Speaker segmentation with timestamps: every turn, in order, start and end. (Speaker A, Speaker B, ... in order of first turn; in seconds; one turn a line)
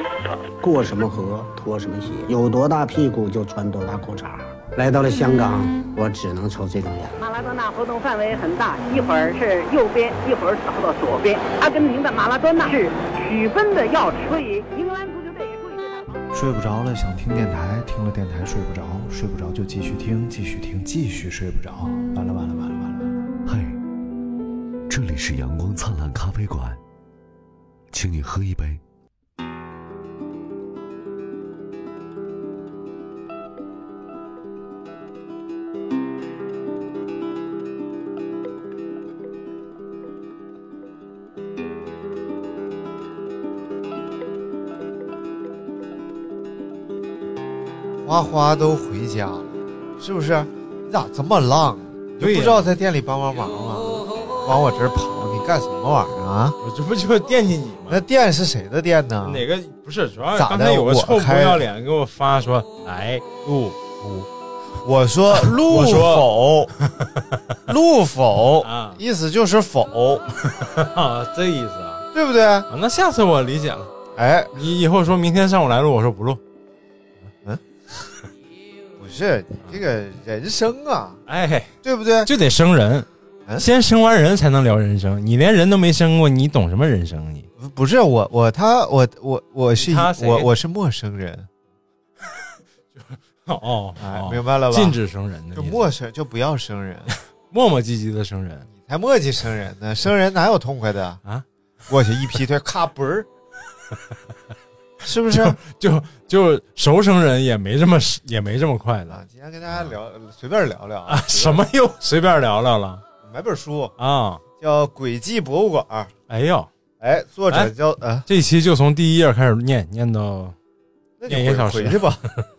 Speaker A: 0.6-7.2
Speaker B: 7.2-16.2
Speaker C: 16.3-23.2
Speaker D: 23.4-23.8
Speaker D: 24.9-26.8
Speaker D: 27.9-28.8
Speaker E: 48.0-56.6
Speaker F: 52.2-52.7
Speaker F: 56.6-58.1
Speaker E: 57.9-59.4
Speaker F: 59.2-64.3
Speaker E: 60.3-61.7
Speaker E: 64.8-66.7
Speaker F: 65.3-67.4
Speaker E: 67.7-70.3
Speaker F: 68.6-69.0
Speaker F: 70.5-72.0
Speaker E: 72.1-72.7
Speaker F: 72.7-73.9
Speaker E: 74.2-74.5
Speaker F: 74.5-76.4
Speaker E: 79.0-81.2
Speaker F: 81.3-81.7
Speaker E: 81.8-82.3
Speaker F: 82.3-87.5
Speaker E: 87.6-91.5
Speaker F: 89.8-90.5
Speaker F: 93.0-95.8
Speaker E: 94.0-95.0
Speaker E: 95.5-97.1
Speaker F: 97.1-98.7
Speaker E: 98.7-101.2
Speaker E: 101.9-103.3
Speaker E: 105.0-105.6
Speaker F: 105.3-109.2
Speaker E: 109.1-111.7
Speaker F: 111.1-113.0
Speaker E: 113.2-114.0
Speaker F: 114.0-114.4
Speaker E: 114.6-116.1
Speaker F: 116.3-116.7
Speaker E: 117.0-118.3
Speaker F: 118.3-120.6
Speaker E: 121.2-122.2
Speaker F: 121.3-122.5